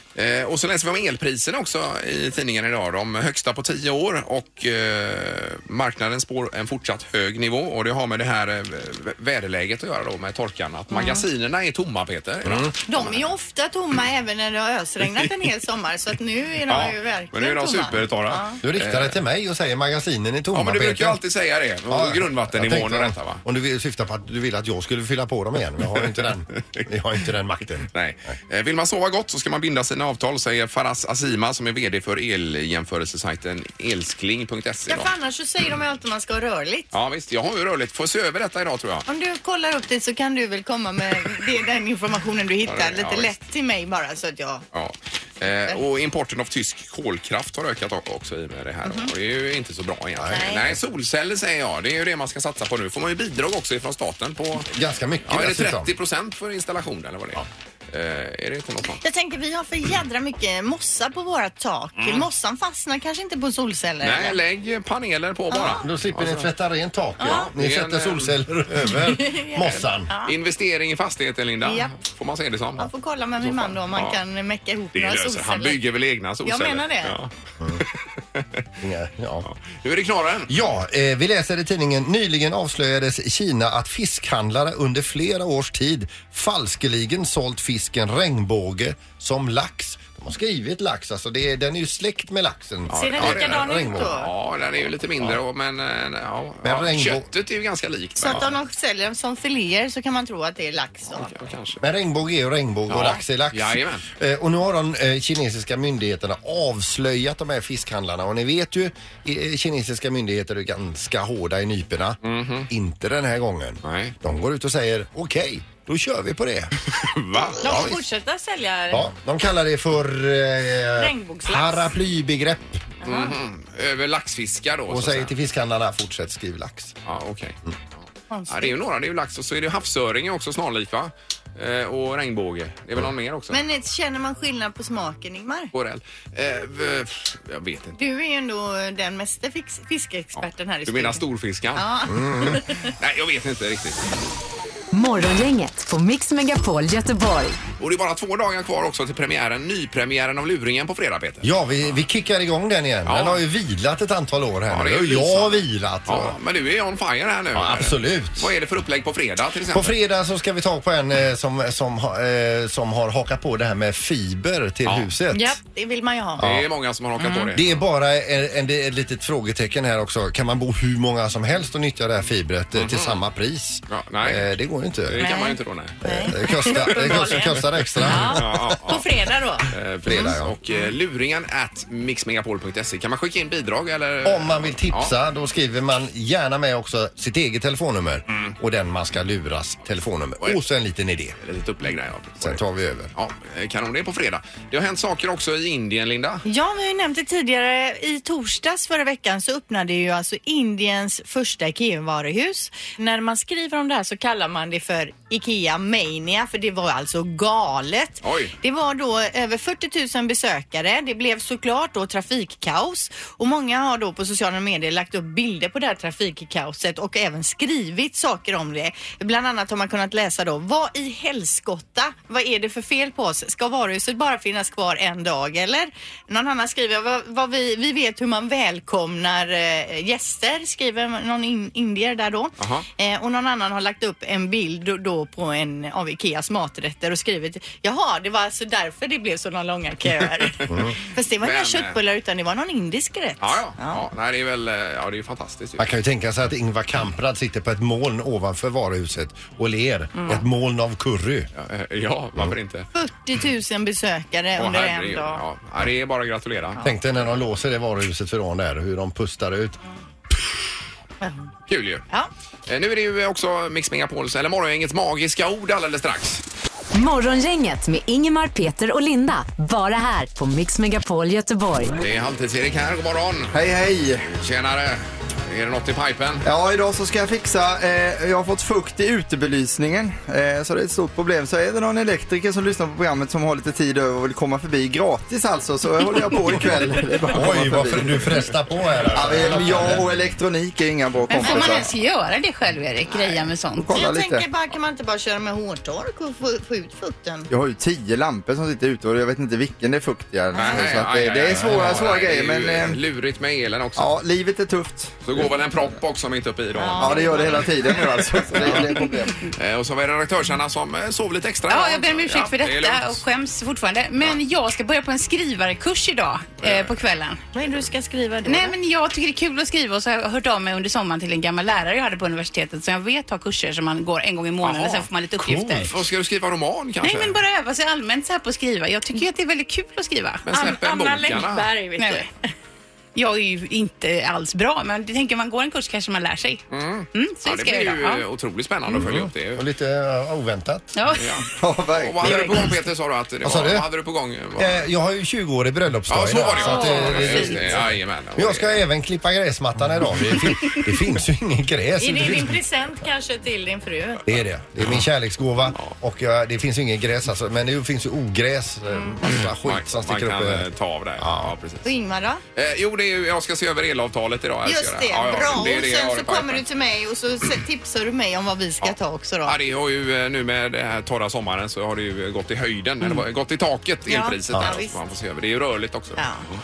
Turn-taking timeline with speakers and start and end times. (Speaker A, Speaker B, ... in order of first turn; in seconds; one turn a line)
Speaker A: 0.1-13.3
Speaker B: 10.9-11.3
Speaker C: 12.4-12.7
Speaker B: 12.8-18.6
Speaker A: 16.7-19.2
Speaker C: 18.6-21.2
Speaker A: 20.5-23.4
Speaker C: 21.9-28.3
Speaker A: 27.9-35.1
Speaker B: 34.9-36.9
Speaker A: 36.9-39.0
Speaker B: 39.1-44.6
Speaker A: 42.6-43.3
Speaker A: 44.7-54.7
Speaker B: 45.5-45.8
Speaker B: 48.8-49.1
Speaker C: 50.2-50.6
Speaker B: 50.3-50.7
Speaker C: 54.7-55.9
Speaker A: 55.2-59.0
Speaker B: 59.0-64.4
Speaker A: 62.0-62.3
Speaker A: 64.0-66.5
Speaker B: 65.5-65.9
Speaker C: 65.6-70.1
Speaker B: 67.2-67.5
Speaker A: 67.2-68.4
Speaker B: 69.0-70.3
Speaker A: 69.6-72.9
Speaker B: 71.6-71.9
Speaker B: 72.8-75.8
Speaker A: 73.4-74.2
Speaker A: 74.9-78.6
Speaker B: 76.4-77.2
Speaker C: 78.8-79.5
Speaker A: 79.4-80.5
Speaker C: 80.5-94.2
Speaker A: 92.9-98.5
Speaker B: 92.9-94.3
Speaker C: 96.6-97.3
Speaker B: 98.2-101.3
Speaker A: 101.1-101.8
Speaker C: 101.8-116.7
Speaker A: 102.9-104.0
Speaker A: 112.2-112.7
Speaker A: 113.8-114.1
Speaker A: 116.9-117.8
Speaker B: 117.6-119.1
Speaker C: 117.6-118.0
Speaker C: 118.9-122.9
Speaker B: 121.0-121.9
Speaker B: 123.0-123.4
Speaker A: 123.0-125.3
Speaker C: 124.9-126.9
Speaker A: 127.0-127.5
Speaker B: 128.3-128.8
Speaker A: 128.5-133.6
Speaker B: 133.5-135.7
Speaker A: 135.7-138.0
Speaker B: 137.9-141.2
Speaker A: 140.3-141.8
Speaker B: 141.7-142.9
Speaker C: 142.1-142.6
Speaker A: 142.4-144.1
Speaker D: 144.9-147.6
Speaker A: 147.8-152.0
Speaker C: 151.4-156.4
Speaker A: 153.1-153.4
Speaker A: 154.7-159.9
Speaker C: 157.5-158.5
Speaker C: 159.7-165.6
Speaker A: 164.8-165.1
Speaker B: 165.3-166.4
Speaker C: 166.4-166.7
Speaker A: 166.4-167.8
Speaker B: 167.2-167.5
Speaker C: 167.5-175.2
Speaker A: 172.7-173.2
Speaker A: 173.9-174.5
Speaker A: 175.0-176.0
Speaker B: 175.2-180.9
Speaker C: 176.0-179.1
Speaker A: 176.5-179.1
Speaker A: 179.7-185.1
Speaker C: 180.0-180.6
Speaker C: 184.2-191.3
Speaker A: 188.3-188.6
Speaker A: 191.4-192.6
Speaker C: 192.4-193.1
Speaker A: 193.1-196.4
Speaker B: 196.5-244.0
Speaker A: 208.2-208.5
Speaker A: 232.6-232.8
Speaker C: 240.7-241.0
Speaker A: 241.4-242.0
Speaker A: 243.4-245.9
Speaker C: 245.8-251.5
Speaker A: 251.5-252.9
Speaker B: 252.9-255.4
Speaker A: 254.6-256.8
Speaker B: 256.7-257.0
Speaker C: 256.8-259.8
Speaker B: 261.2-261.5
Speaker A: 261.7-262.1
Speaker A: 262.7-266.4
Speaker D: 266.9-271.9
Speaker A: 272.0-273.6
Speaker E: 273.5-274.2
Speaker A: 274.2-276.4
Speaker E: 276.4-288.3
Speaker C: 287.3-290.4
Speaker E: 289.1-291.9
Speaker F: 291.3-293.9
Speaker E: 293.8-294.5
Speaker B: 293.9-297.5
Speaker E: 297.5-303.0
Speaker A: 300.5-304.1
Speaker E: 303.9-305.5
Speaker A: 305.2-308.9
Speaker B: 306.7-307.7
Speaker E: 307.0-309.4
Speaker A: 309.5-313.3
Speaker F: 311.7-317.4
Speaker A: 316.6-317.0
Speaker B: 317.5-318.7
Speaker F: 318.4-326.0
Speaker A: 324.6-327.4
Speaker F: 327.0-331.4
Speaker A: 330.4-331.7
Speaker B: 330.6-332.3
Speaker F: 332.0-332.3
Speaker F: 333.1-336.6
Speaker A: 336.7-339.6
Speaker F: 337.1-338.2
Speaker C: 338.9-340.9
Speaker F: 340.9-341.4
Speaker A: 341.1-344.9
Speaker E: 341.5-342.8
Speaker C: 343.4-343.9
Speaker C: 344.6-352.6
Speaker A: 346.1-348.8
Speaker F: 346.6-347.7
Speaker B: 352.0-354.2
Speaker C: 354.2-361.5
Speaker A: 359.4-361.9
Speaker B: 361.8-362.4
Speaker A: 362.6-366.6
Speaker B: 364.6-369.6
Speaker A: 369.4-376.2
Speaker B: 374.1-375.0
Speaker C: 374.5-374.8
Speaker B: 376.2-376.4